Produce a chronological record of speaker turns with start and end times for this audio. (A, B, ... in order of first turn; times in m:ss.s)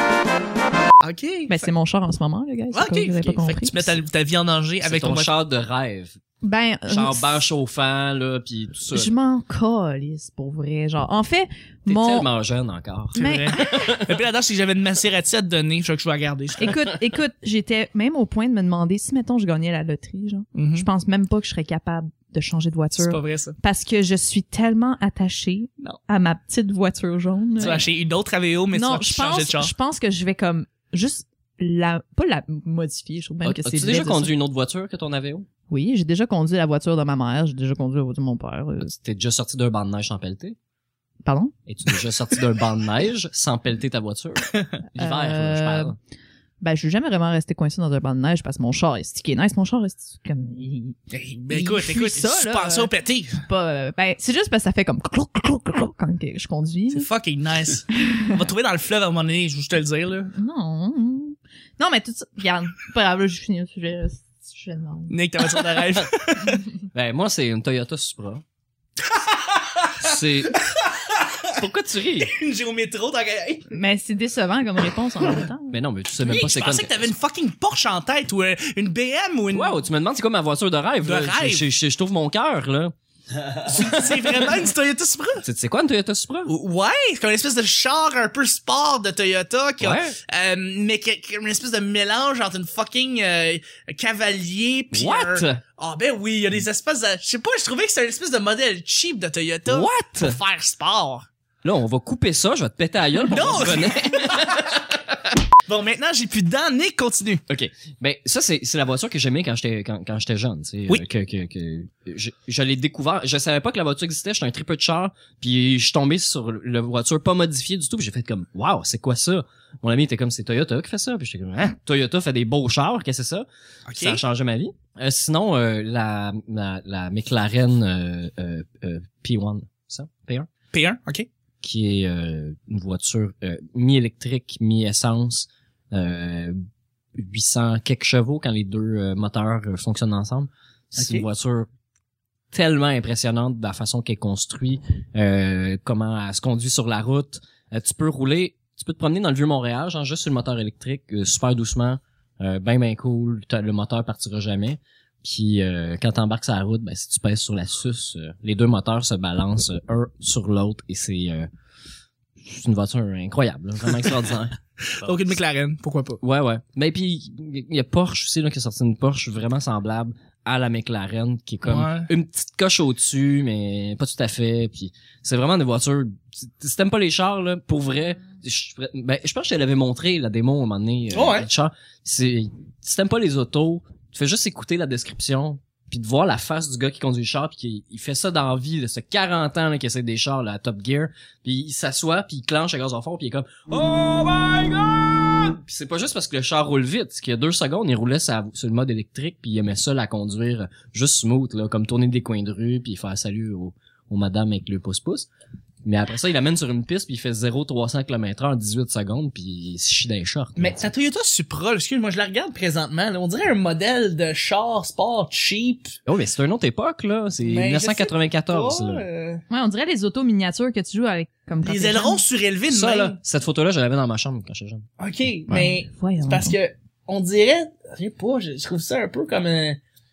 0:01.0-0:01.6 A
0:01.5-0:03.9 B
0:02.7-0:05.3 A
0:04.8-0:06.2 C
0:06.4-0:07.4 B
0:06.9-0:09.1 C
0:08.9-0:12.3 B
0:11.9-0:14.2 C
0:13.2-0:14.0 B
0:13.2-0:16.7 A
0:16.6-0:27.9 B
0:20.5-0:20.9 A
0:23.0-0:23.6 A
0:27.6-0:29.7 A
0:28.7-0:34.3 B
0:33.4-0:35.5 C
0:35.7-0:38.9 B
0:38.8-0:40.6 C
0:41.2-0:41.5 B
0:41.7-0:46.0 C
0:45.0-0:45.9 B
0:46.6-0:51.0 B
0:51.1-0:53.4 A
0:51.5-0:57.1 B
0:56.9-1:00.3 A
0:57.9-0:58.4 B
1:00.3-1:05.2 B
1:05.1-1:06.6 A
1:06.9-1:08.4 C
1:09.1-1:09.9 A
1:10.0-1:10.6 C
1:10.5-1:11.5 A
1:11.5-1:12.3 C
1:12.2-1:13.7 A
1:13.7-1:15.8 B
1:15.7-1:17.1 C
1:16.2-1:19.8 A
1:19.5-1:22.9 C
1:21.0-1:21.6 A
1:23.6-1:25.4 A
1:23.8-1:24.5 C
1:25.4-1:26.5 C
1:26.5-1:41.2 A
1:29.8-1:30.2 C
1:34.9-1:35.6 C
1:39.7-1:40.4 C
1:41.6-1:44.8 C
1:43.3-1:44.8 A
1:45.6-1:47.4 A
1:47.5-2:10.5 C
2:03.9-2:04.2 A
2:10.7-2:11.3 A
2:11.6-2:16.6 C
2:17.2-2:21.7 C
2:21.0-2:21.2 A
2:22.5-2:41.5 C
2:42.4-2:44.6 C
2:44.8-2:46.2 A
2:46.2-3:25.3 C
2:51.6-2:52.1 A
3:01.1-3:01.5 A
3:25.8-3:30.8 C
3:30.6-3:36.0 A
3:36.0-3:39.0 C
3:37.4-3:39.4 A
3:39.5-3:42.2 B
3:41.6-3:43.2 A
3:42.7-3:44.9 C
3:45.0-3:49.8 A
3:45.5-3:46.6 B